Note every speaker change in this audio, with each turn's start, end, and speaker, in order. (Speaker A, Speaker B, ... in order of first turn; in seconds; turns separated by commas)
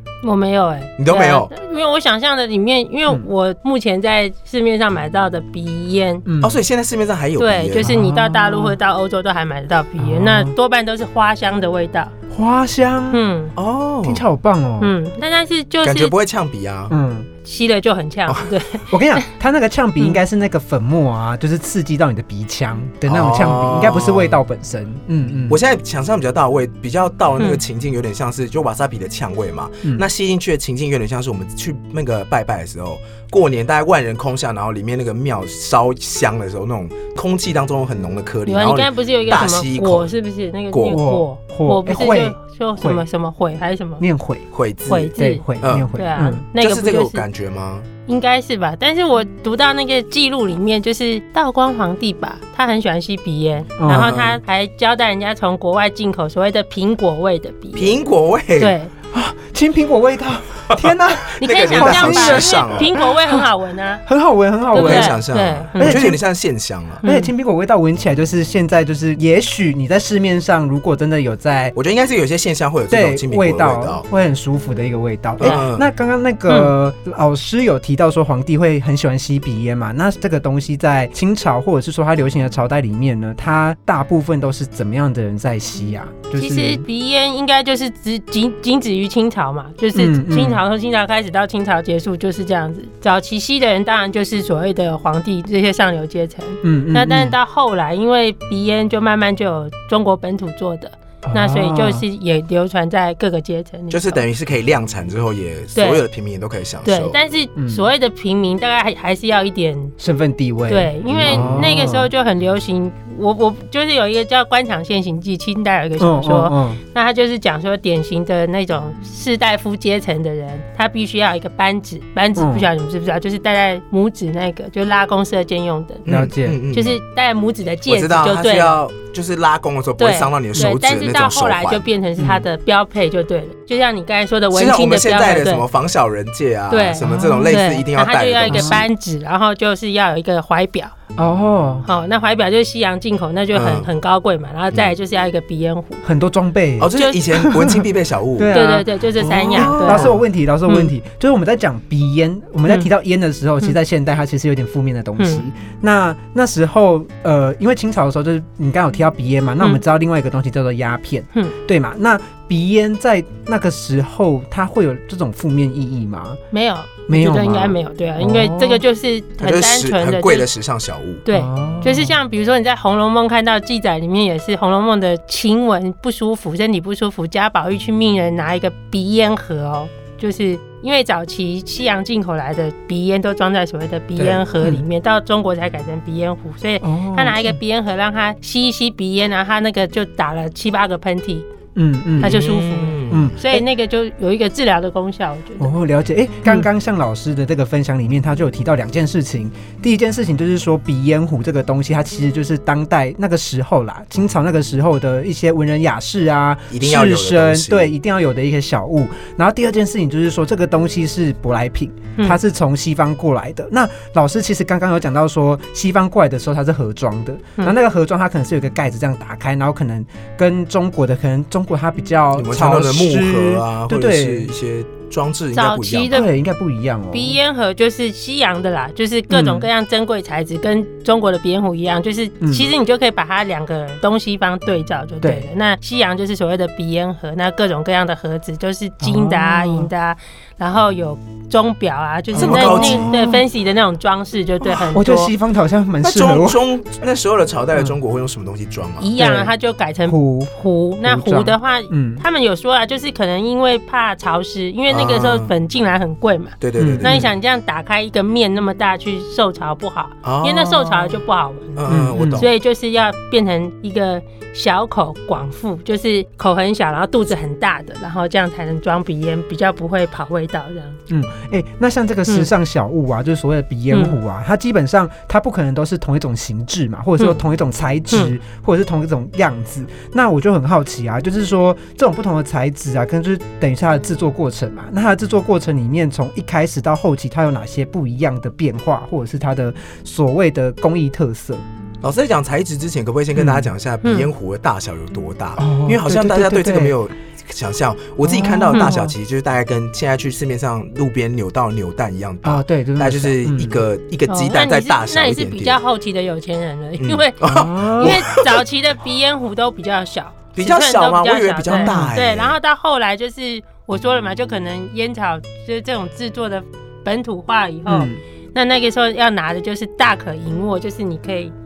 Speaker A: 0.2-6.2, Speaker B: 1.0-1.5, Speaker C: 6.2-6.6, Speaker B: 6.4-7.9, Speaker A: 7.4-12.1, Speaker C: 7.8-8.8, Speaker C: 10.0-10.5, Speaker C: 12.3-13.2, Speaker A: 13.1-13.5, Speaker B: 13.6-14.2, Speaker C: 14.0-14.9, Speaker A: 14.8-16.1, Speaker B: 15.8-16.9, Speaker C: 16.9-17.3, Speaker A: 17.4-19.2, Speaker C: 18.9-25.6, Speaker B: 23.1-24.4, Speaker B: 25.5-40.1, Speaker A: 38.5-44.0, Speaker B: 40.7-41.0, Speaker C: 40.9-43.0, Speaker C: 44.0-44.5, Speaker B: 44.5-45.9, Speaker A: 44.9-45.4, Speaker C: 45.1-46.5, Speaker A: 46.0-47.2, Speaker B: 46.6-47.9, Speaker A: 48.1-58.0, Speaker C: 53.8-54.2, Speaker B: 53.9-54.4, Speaker B: 57.8-58.8, Speaker A: 58.6-58.9, Speaker C: 59.1-63.5, Speaker B: 60.7-62.9, Speaker A: 61.4-64.0, Speaker C: 64.1-65.2, Speaker A: 64.7-66.2, Speaker B: 64.7-67.0, Speaker C: 65.8-66.2, Speaker A: 67.0-67.3, Speaker C: 67.0-71.8, Speaker B: 71.8-74.0, Speaker C: 72.9-86.8, Speaker B: 75.4-75.8, Speaker A: 86.3-104.2, Speaker C: 89.9-90.6, Speaker C: 96.6-97.4, Speaker C: 101.2-102.0, Speaker B: 103.9-107.2, Speaker A: 105.8-106.0, Speaker A: 106.8-110.0, Speaker C: 107.6-107.8, Speaker C: 110.0-112.1, Speaker A: 110.7-126.1, Speaker B: 111.1-111.7, Speaker C: 116.0-116.8, Speaker C: 122.4-122.7, Speaker C: 126.1-126.6, Speaker B: 126.1-127.0, Speaker A: 126.7-128.8, Speaker B: 127.9-131.9, Speaker A: 130.0-135.7, Speaker C: 132.2-132.4, Speaker B: 134.5-138.9, Speaker A: 136.7-141.0, Speaker C: 137.0-137.6, Speaker C: 138.5-138.8, Speaker C: 141.2-141.9, Speaker A: 141.8-146.0, Speaker B: 143.5-143.9, Speaker C: 146.0-148.9, Speaker B: 146.8-148.5, Speaker A: 148.5-150.2, Speaker B: 149.2-150.2, Speaker C: 149.5-166.4, Speaker A: 150.7-150.9, Speaker A: 155.2-155.4, Speaker A: 166.5-170.5, Speaker C: 167.1-168.8, Speaker B: 169.4-171.2, Speaker A: 171.3-191.5, Speaker C: 171.3-172.2, Speaker C: 184.2-184.8, Speaker C: 186.8-187.6, Speaker C: 191.8-192.4, Speaker B: 192.2-193.3, Speaker A: 192.2-195.7, Speaker C: 193.1-193.7, Speaker C: 195.6-224.5, Speaker B: 206.7-207.9, Speaker B: 222.3-226.2, Speaker A: 225.5-226.3, Speaker C: 226.1-227.4, Speaker A: 227.1-245.3, Speaker C: 229.3-229.7, Speaker C: 232.4-232.7, Speaker C: 235.2-235.5, Speaker C: 239.0-239.9, Speaker C: 242.3-243.4, Speaker B: 242.3-243.1, Speaker C: 244.9-246.6, Speaker B: 246.0-249.1, Speaker A: 249.0-271.0, Speaker C: 249.2-249.5, Speaker C: 250.1-250.5, Speaker C: 251.0-252.2, Speaker B: 254.9-255.5, Speaker B: 256.6-257.3, Speaker C: 256.8-257.3, Speaker B: 260.2-261.2, Speaker B: 261.8-262.5, Speaker C: 261.9-262.5, Speaker C: 271.1-291.6, Speaker B: 292.0-305.8, Speaker C: 293.3-293.7, Speaker A: 294.0-294.3, Speaker C: 295.6-297.0, Speaker C: 298.2-299.2, Speaker C: 302.4-303.8, Speaker A: 304.3-321.5, Speaker B: 307.0-308.6, Speaker C: 307.4-308.2, Speaker B: 310.6-312.6, Speaker C: 311.7-312.1, Speaker C: 317.9-318.2